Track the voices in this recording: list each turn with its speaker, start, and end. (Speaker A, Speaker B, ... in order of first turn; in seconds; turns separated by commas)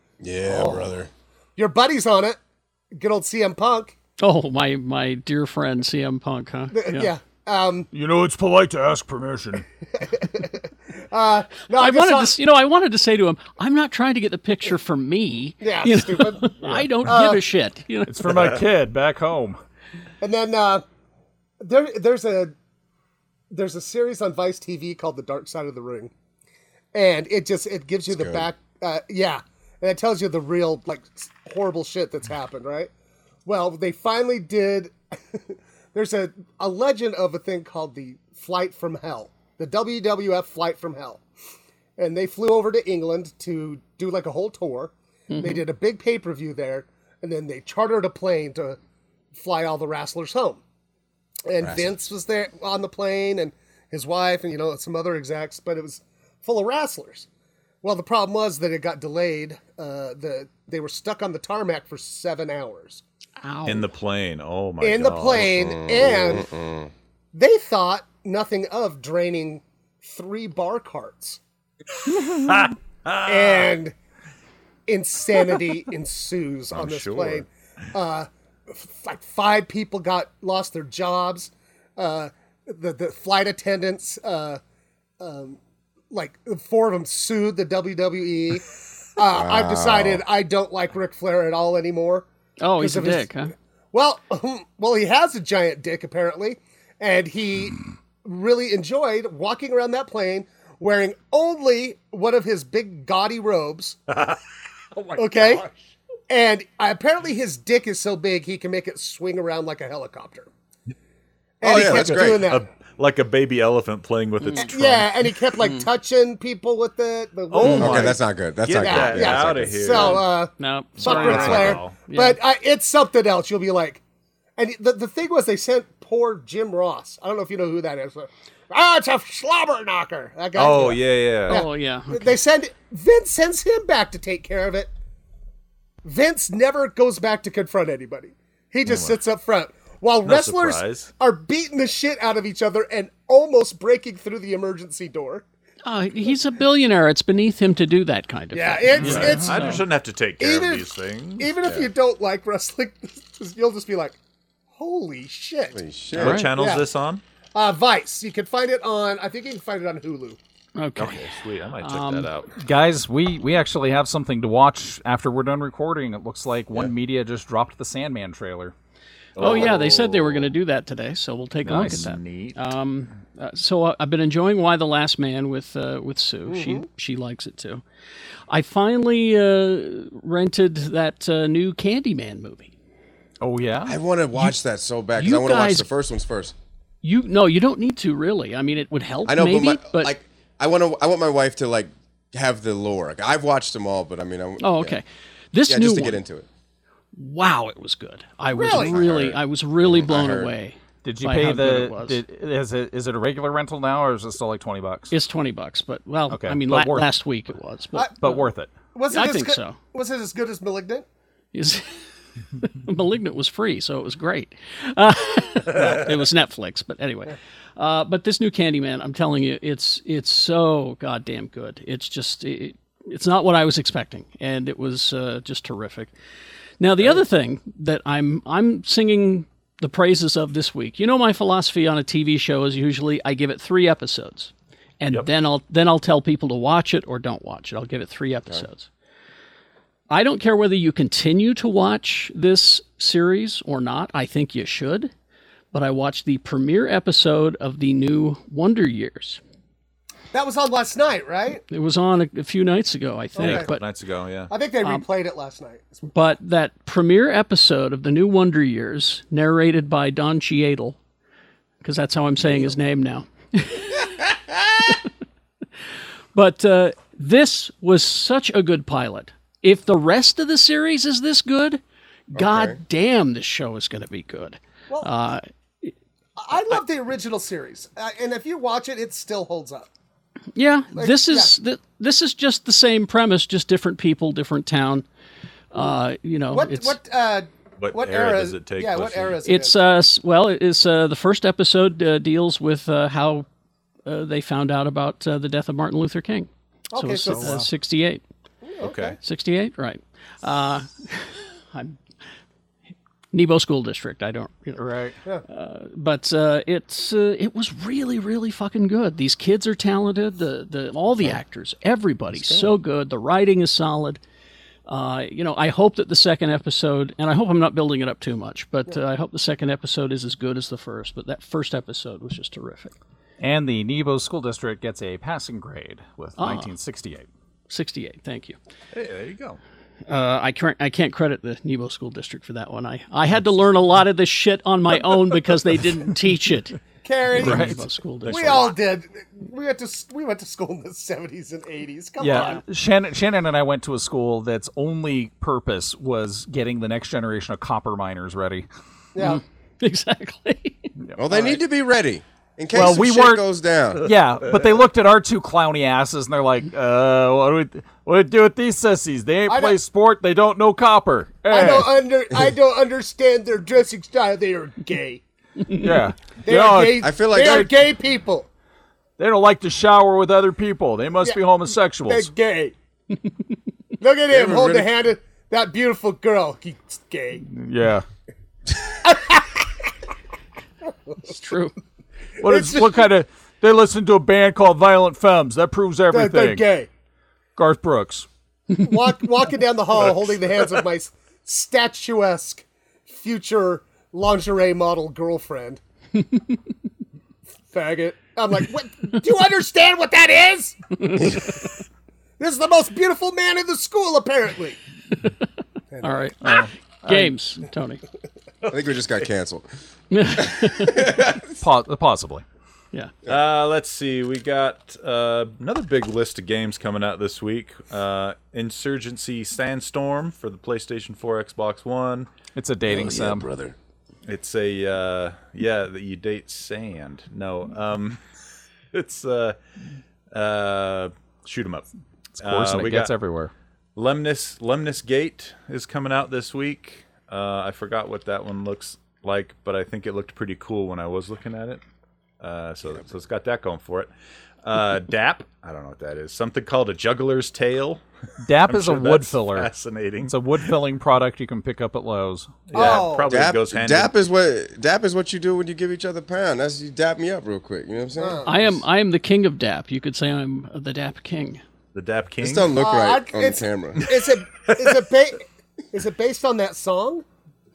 Speaker A: 0.2-1.1, Speaker B: 0.4-0.9, Speaker B: 1.6-2.4, Speaker B: 2.9-3.9, Speaker C: 4.2-7.1, Speaker B: 6.7-7.9, Speaker D: 7.9-9.6, Speaker B: 10.0-12.3, Speaker C: 11.7-18.1, Speaker B: 15.6-17.4, Speaker D: 16.6-16.9, Speaker D: 18.1-19.6, Speaker B: 20.2-20.8, Speaker B: 21.6-22.5, Speaker B: 23.5-26.1, Speaker B: 26.9-32.9, Speaker A: 28.1-28.5, Speaker B: 33.5-41.2, Speaker B: 42.0-48.8, Speaker C: 45.3-45.6, Speaker B: 49.3-50.6, Speaker B: 51.5-57.3, Speaker A: 51.6-52.0, Speaker B: 57.8-63.0, Speaker C: 63.4-63.9, Speaker E: 63.6-65.6, Speaker B: 64.8-66.5, Speaker A: 65.5-66.9, Speaker B: 67.3-71.4, Speaker E: 72.1-73.7, Speaker B: 73.2-73.9, Speaker B: 74.9-84.6, Speaker E: 76.7-77.4, Speaker B: 85.2-85.6, Speaker B: 86.1-93.3, Speaker A: 89.3-90.2, Speaker C: 92.6-93.5, Speaker B: 93.9-104.0, Speaker E: 104.1-104.4, Speaker E: 105.0-105.7, Speaker B: 105.2-105.6, Speaker B: 106.3-110.5, Speaker B: 111.6-112.6, Speaker A: 111.6-112.5, Speaker E: 111.7-115.3, Speaker C: 114.4-114.7, Speaker B: 114.6-118.2, Speaker E: 117.5-120.2, Speaker C: 117.6-117.8, Speaker A: 117.7-120.2, Speaker B: 118.8-124.0, Speaker C: 120.6-122.4, Speaker E: 121.0-122.0, Speaker B: 124.6-134.9, Speaker E: 130.5-131.6, Speaker C: 131.5-132.3, Speaker B: 136.0-145.4, Speaker E: 138.8-139.2, Speaker E: 140.2-141.1, Speaker C: 145.8-149.8, Speaker B: 148.5-149.8, Speaker E: 149.0-151.5, Speaker D: 149.0-149.5, Speaker B: 150.4-154.2, Speaker B: 154.7-155.8, Speaker A: 155.7-156.4, Speaker E: 156.1-157.2, Speaker C: 156.2-156.5, Speaker B: 156.6-156.8, Speaker B: 157.5-160.4, Speaker C: 160.8-161.3, Speaker E: 160.9-162.5, Speaker C: 161.8-162.3, Speaker D: 162.6-168.7, Speaker E: 169.3-170.5, Speaker C: 169.4-177.8, Speaker E: 171.6-172.6, Speaker B: 176.5-176.8, Speaker C: 178.5-182.7, Speaker D: 183.4-183.9, Speaker A: 183.8-186.5, Speaker C: 185.2-185.9, Speaker C: 187.0-190.1, Speaker A: 189.2-195.0, Speaker C: 194.6-196.2, Speaker A: 195.7-196.5, Speaker C: 197.2-202.2, Speaker B: 198.5-199.0, Speaker A: 198.7-200.5, Speaker D: 201.0-205.1, Speaker C: 205.1-208.5, Speaker D: 206.3-207.1, Speaker D: 208.2-208.7, Speaker B: 208.9-211.1, Speaker C: 209.1-209.8, Speaker C: 211.5-212.0, Speaker C: 212.6-226.1, Speaker C: 226.8-238.9, Speaker C: 240.1-245.1, Speaker C: 245.7-249.4, Speaker B: 250.3-251.6, Speaker C: 251.7-253.8, Speaker B: 253.4-253.8, Speaker E: 253.4-254.5, Speaker B: 254.5-256.1, Speaker C: 256.1-261.0, Speaker C: 261.8-264.3, Speaker C: 266.3-275.9, Speaker A: 272.3-272.8, Speaker B: 276.4-279.9, Speaker C: 280.6-285.1, Speaker B: 280.9-281.5, Speaker C: 285.7-286.9, Speaker B: 286.5-289.9, Speaker E: 287.8-289.4, Speaker C: 289.4-293.4, Speaker C: 294.1-298.2, Speaker B: 296.9-297.7, Speaker D: 297.3-297.6, Speaker B: 298.6-299.2, Speaker E: 298.8-299.2, Speaker C: 299.2-302.0, Speaker C: 303.3-304.8, Speaker D: 304.8-305.2, Speaker C: 305.5-314.2, Speaker C: 314.9-322.9, Speaker D: 323.4-327.3, Speaker C: 326.4-326.7, Speaker C: 327.7-328.6, Speaker E: 328.9-329.6, Speaker C: 330.1-336.8, Speaker B: 337.0-337.8, Speaker D: 337.3-337.8, Speaker C: 337.3-338.7, Speaker B: 338.3-342.6, Speaker E: 338.3-338.6, Speaker D: 342.2-348.7, Speaker C: 342.2-342.6, Speaker B: 349.1-349.4, Speaker C: 349.2-350.9, Speaker A: 351.1-354.0, Speaker D: 352.7-353.4, Speaker D: 354.0-362.0, Speaker B: 359.5-359.8, Speaker B: 361.5-365.2, Speaker D: 365.8-367.6, Speaker B: 366.4-368.5, Speaker A: 367.0-367.7, Speaker D: 369.2-372.3, Speaker B: 372.0-372.7, Speaker B: 374.0-377.4, Speaker A: 374.3-374.9, Speaker D: 377.5-378.0, Speaker B: 378.9-379.9, Speaker C: 381.3-381.7, Speaker D: 382.4-386.7, Speaker B: 382.4-383.1, Speaker B: 386.1-386.9, Speaker D: 387.6-388.3, Speaker B: 388.8-395.8, Speaker B: 397.7-401.6, Speaker A: 401.2-401.5, Speaker B: 402.4-404.8, Speaker B: 405.9-406.3, Speaker C: 406.0-408.0, Speaker D: 406.4-407.3, Speaker A: 408.7-409.6, Speaker C: 410.1-411.0, Speaker A: 410.4-411.5, Speaker D: 411.6-412.4, Speaker E: 413.2-422.3, Speaker D: 422.6-423.5, Speaker A: 423.5-423.7, Speaker E: 424.3-428.2, Speaker E: 428.9-429.6, Speaker E: 430.3-431.9, Speaker D: 432.4-433.5, Speaker E: 432.4-433.1, Speaker E: 433.9-441.8, Speaker E: 442.4-444.1, Speaker E: 444.6-448.0, Speaker D: 448.4-449.7, Speaker E: 448.6-450.4, Speaker D: 450.3-452.6, Speaker E: 452.7-454.1, Speaker B: 452.7-453.4, Speaker A: 452.8-458.6, Speaker B: 458.2-458.6, Speaker C: 458.4-461.6, Speaker E: 461.9-462.7, Speaker A: 462.4-464.0, Speaker B: 462.7-467.2, Speaker E: 464.6-465.0